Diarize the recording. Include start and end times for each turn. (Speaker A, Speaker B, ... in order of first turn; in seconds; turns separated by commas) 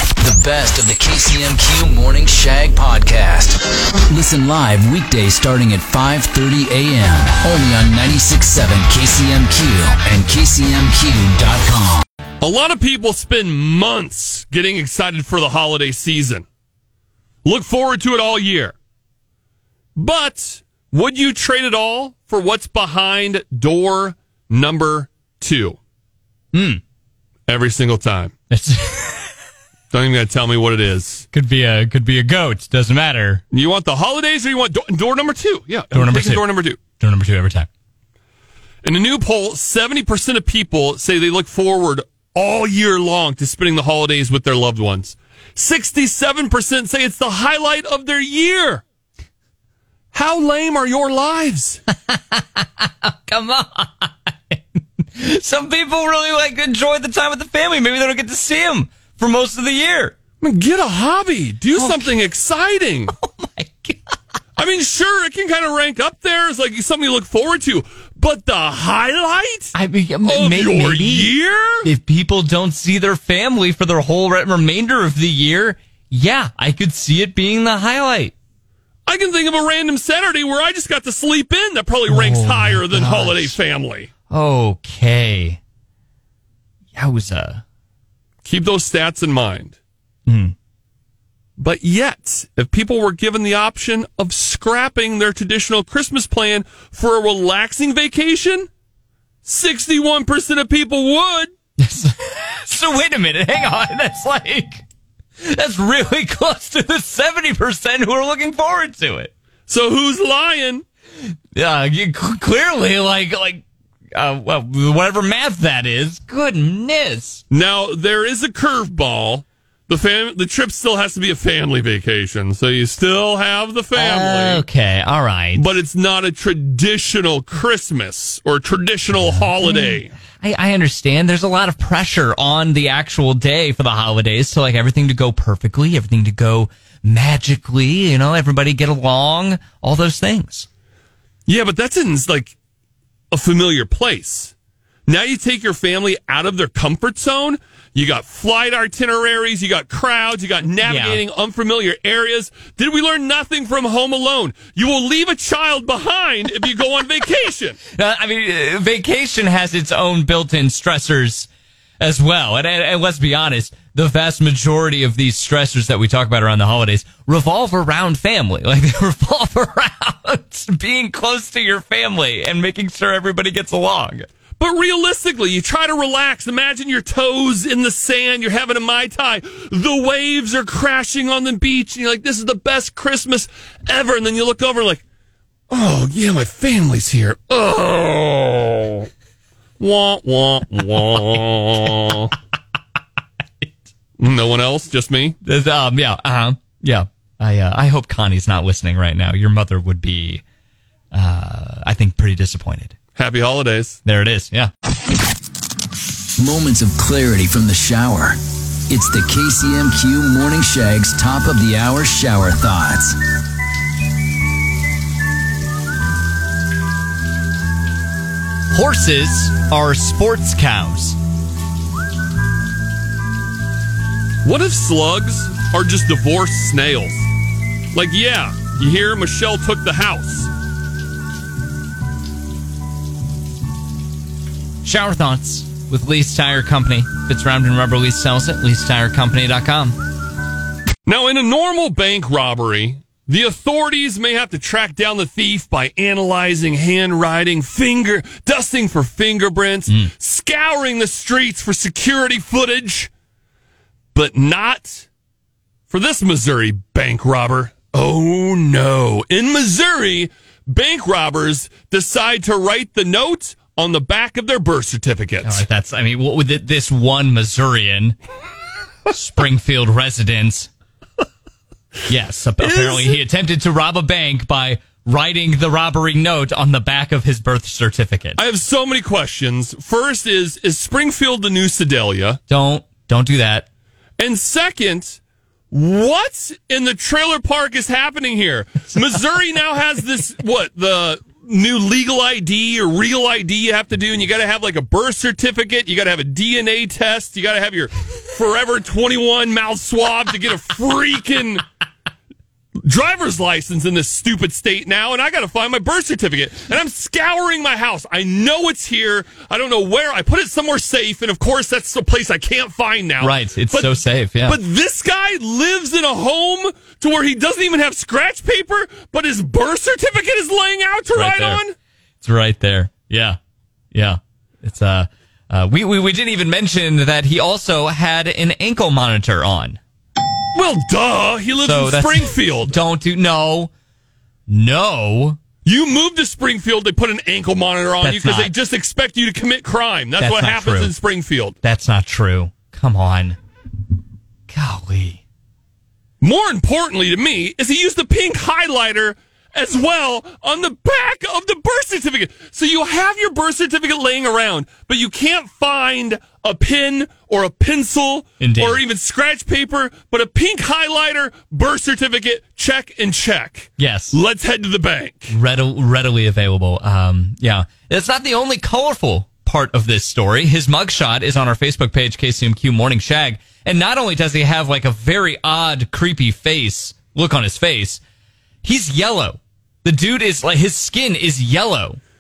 Speaker A: 0.2-12.0, Speaker B: 12.4-16.4, Speaker B: 17.4-18.8, Speaker B: 20.0-25.8, Speaker C: 26.5-26.8, Speaker B: 27.5-28.3, Speaker C: 28.5-29.3, Speaker B: 29.9-31.3, Speaker C: 31.3-33.4, Speaker B: 33.5-36.8, Speaker C: 35.9-37.7, Speaker B: 38.8-48.8, Speaker B: 50.1-51.8, Speaker C: 52.1-60.1, Speaker B: 60.4-63.1, Speaker C: 61.8-62.2, Speaker C: 63.1-64.1, Speaker B: 64.6-71.9, Speaker C: 69.7-71.3, Speaker C: 71.8-78.3, Speaker B: 79.1-84.1, Speaker C: 82.1-83.6, Speaker C: 84.3-85.6, Speaker C: 87.0-87.6, Speaker B: 88.4-89.8, Speaker C: 90.3-90.5, Speaker B: 91.6-98.7, Speaker B: 99.5-101.5, Speaker C: 101.8-104.8, Speaker C: 105.4-109.3, Speaker B: 109.7-110.8, Speaker C: 111.5-117.4, Speaker B: 117.5-124.6, Speaker C: 124.0-125.7, Speaker B: 125.6-130.1, Speaker C: 129.1-140.7, Speaker B: 141.5-142.6, Speaker B: 143.3-144.5, Speaker B: 145.1-157.8, Speaker C: 150.8-151.2, Speaker C: 157.9-161.5, Speaker C: 162.0-174.3, Speaker B: 174.6-185.0, Speaker B: 185.7-189.1, Speaker B: 189.8-192.3, Speaker B: 194.2-195.4, Speaker C: 195.4-200.4, Speaker C: 201.1-203.0, Speaker B: 203.2-204.0, Speaker C: 204.1-204.7, Speaker A: 206.4-213.2, Speaker C: 218.7-221.2, Speaker B: 224.4-227.3, Speaker B: 227.9-230.5, Speaker C: 234.8-240.0, Speaker B: 241.1-253.1, Speaker B: 254.1-255.1, Speaker B: 255.9-265.6, Speaker C: 265.4-268.2, Speaker C: 269.1-270.7, Speaker C: 272.1-278.4, Speaker B: 272.6-273.2, Speaker B: 278.4-282.4, Speaker C: 282.5-283.7, Speaker B: 284.2-285.2, Speaker B: 285.7-301.6, Speaker B: 302.8-321.7, Speaker C: 313.2-314.6, Speaker C: 321.1-321.6, Speaker C: 322.2-323.4, Speaker C: 323.9-329.8, Speaker B: 330.6-332.8, Speaker C: 331.6-333.7, Speaker C: 334.5-335.4, Speaker B: 335.6-341.6, Speaker C: 338.0-338.5, Speaker C: 340.2-340.9, Speaker C: 341.6-343.4, Speaker C: 344.5-345.2, Speaker B: 346.2-365.4, Speaker C: 358.4-358.8, Speaker C: 363.8-364.2, Speaker C: 365.3-378.0, Speaker C: 378.6-382.0